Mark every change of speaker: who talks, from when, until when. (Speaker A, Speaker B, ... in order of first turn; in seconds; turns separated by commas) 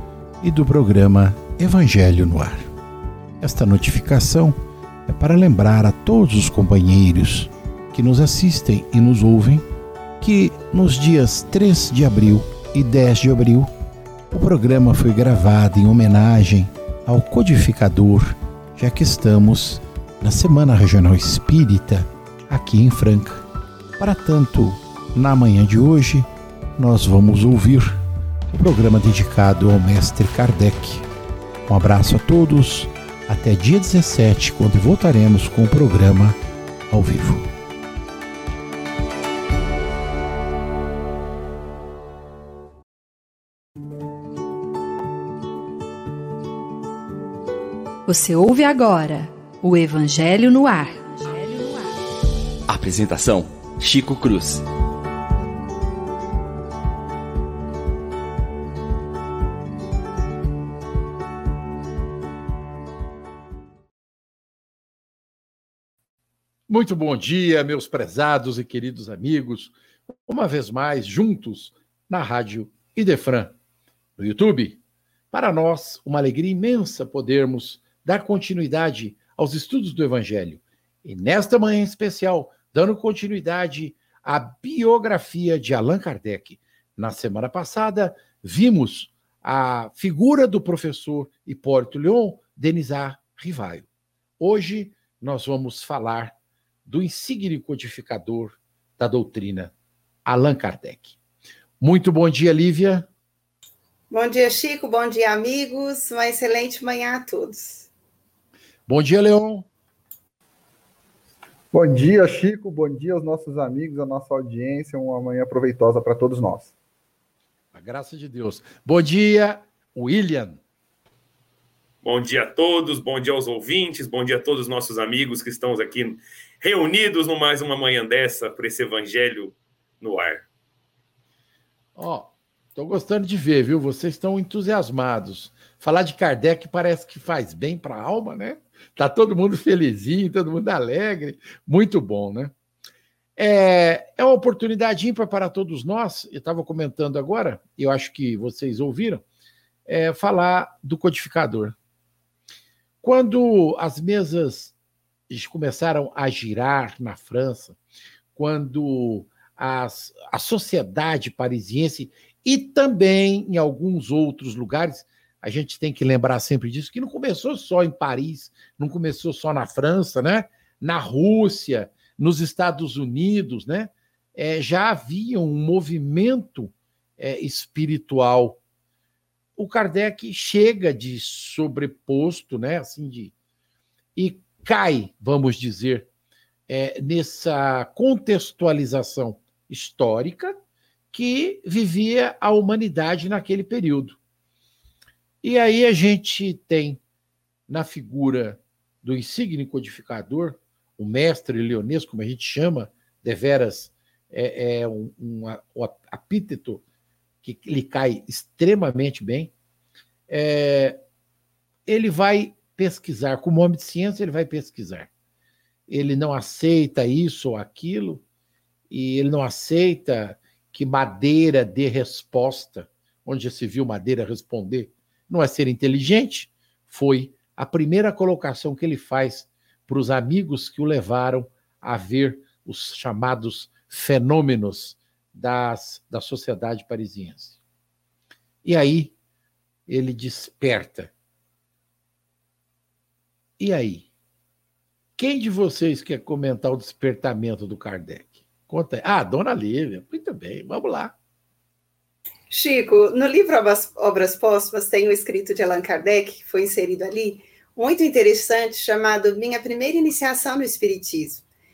Speaker A: 0.4-2.7, Speaker A: 3.4-9.6, Speaker A: 10.2-13.7, Speaker A: 14.3-23.4, Speaker A: 24.0-31.1, Speaker A: 31.7-36.4, Speaker A: 36.9-37.5, Speaker B: 48.0-51.9, Speaker C: 52.7-54.6, Speaker A: 66.7-73.5, Speaker A: 74.2-93.9, Speaker A: 94.4-96.3, Speaker A: 96.8-99.7, Speaker A: 100.2-101.2, Speaker A: 101.8-103.1, Speaker D: 104.1-107.9, Speaker A: 108.9-109.7, Speaker E: 111.7-116.7, Speaker A: 117.7-120.6, Speaker F: 122.0-130.4, Speaker A: 131.9-142.5, Speaker A: 143.4-149.2, Speaker A: 149.8-151.8, Speaker A: 153.0-154.7, Speaker A: 155.3-157.8, Speaker A: 158.3-178.6, Speaker A: 179.6-183.3, Speaker A: 184.2-186.1, Speaker A: 186.7-190.6, Speaker A: 191.1-194.2, Speaker A: 195.4-197.0, Speaker A: 197.7-206.8, Speaker A: 207.4-209.5, Speaker A: 210.3-211.0, Speaker A: 211.8-215.1, Speaker A: 215.9-218.2, Speaker A: 218.9-237.6, Speaker A: 238.6-239.1, Speaker A: 239.9-241.1, Speaker A: 243.6-244.1, Speaker A: 245.2-251.1, Speaker D: 252.5-261.4